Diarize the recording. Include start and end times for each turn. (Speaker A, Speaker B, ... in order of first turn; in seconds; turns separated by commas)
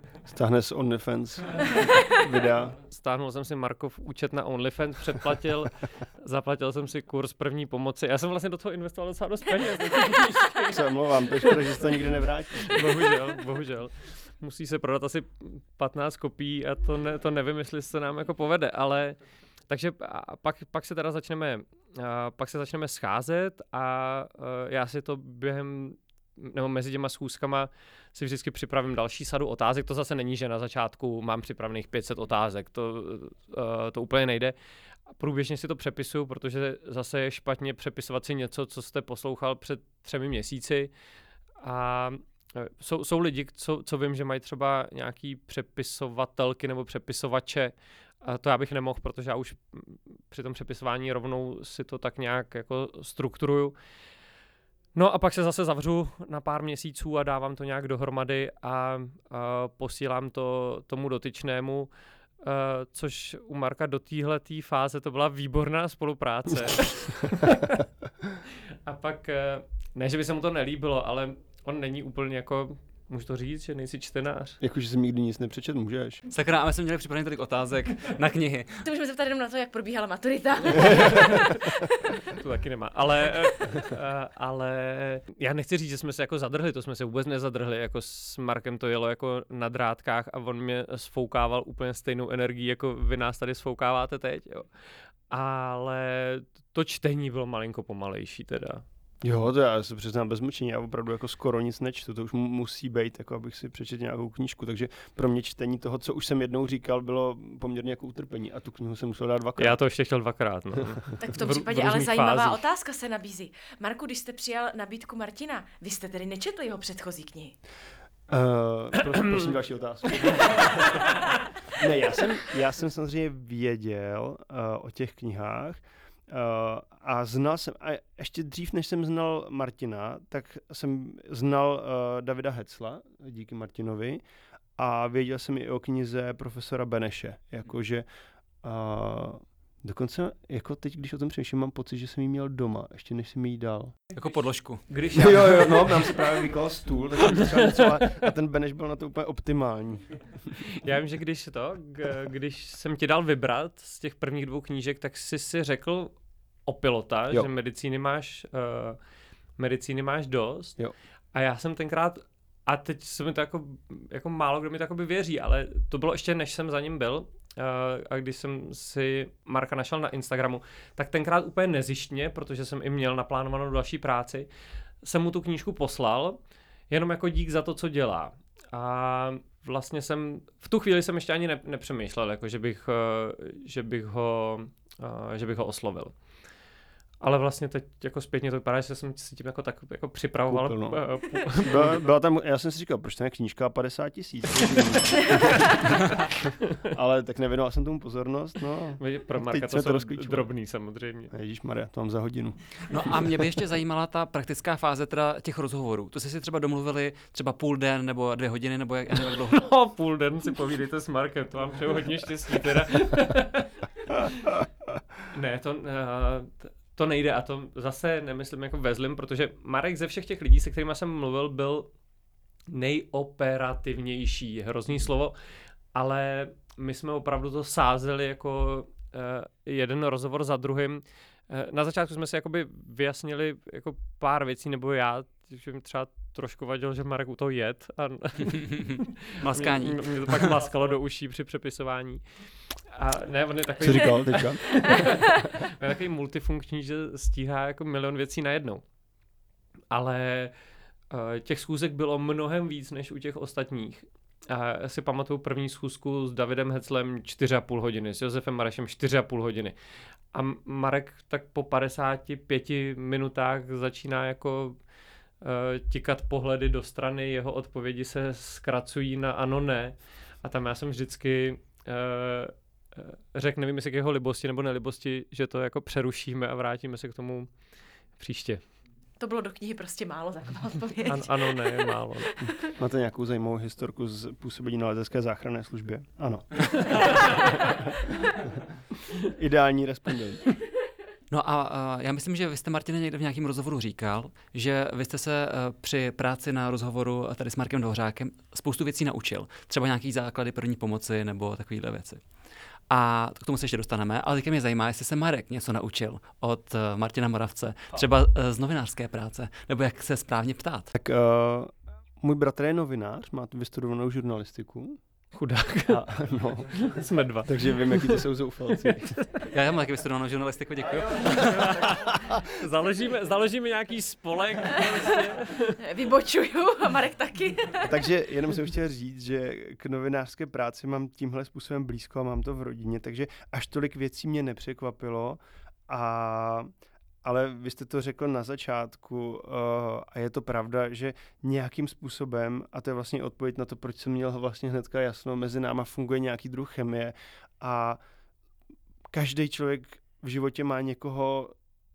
Speaker A: 0.3-2.8, Speaker B: 2.8-10.9, Speaker A: 10.7-12.9, Speaker B: 12.7-34.5, Speaker B: 35.1-40.9, Speaker B: 41.6-53.8, Speaker B: 55.0-67.7, Speaker B: 68.9-74.6, Speaker A: 74.6-76.2, Speaker C: 76.3-78.9, Speaker D: 78.8-82.2, Speaker B: 82.3-94.7, Speaker B: 95.3-98.8, Speaker A: 99.2-109.8, Speaker B: 109.6-112.6, Speaker D: 111.2-117.6, Speaker A: 118.3-121.2, Speaker B: 119.1-119.6, Speaker B: 120.2-121.0, Speaker A: 121.7-134.2, Speaker A: 134.8-138.1, Speaker A: 138.6-143.9, Speaker C: 144.2-145.3, Speaker B: 144.9-146.3, Speaker A: 145.1-150.5, Speaker B: 147.3-148.3, Speaker B: 150.6-159.0, Speaker B: 159.6-160.8, Speaker B: 161.3-174.5, Speaker B: 175.0-176.4, Speaker B: 176.9-186.2, Speaker B: 187.2-192.0, Speaker A: 190.5-196.3, Speaker A: 196.8-200.5, Speaker B: 199.0-201.3, Speaker A: 201.3-202.9, Speaker C: 202.9-209.7, Speaker B: 209.5-214.6, Speaker B: 215.3-221.9, Speaker B: 222.7-225.4, Speaker B: 225.9-248.8, Speaker C: 238.5-240.5, Speaker A: 243.8-245.2, Speaker B: 249.9-250.6, Speaker B: 251.1-259.8, Speaker B: 260.3-264.8, Speaker B: 265.4-277.5, Speaker B: 278.1-278.6, Speaker D: 279.2-282.6, Speaker B: 281.1-282.4, Speaker A: 282.6-288.5, Speaker A: 289.2-290.6, Speaker C: 291.3-302.2, Speaker C: 302.9-310.9, Speaker A: 310.9-315.0, Speaker B: 315.3-319.4, Speaker A: 315.9-319.2, Speaker C: 319.5-321.9, Speaker B: 321.4-325.8, Speaker D: 325.8-328.0, Speaker A: 327.8-336.7, Speaker A: 337.2-348.0, Speaker A: 349.1-351.6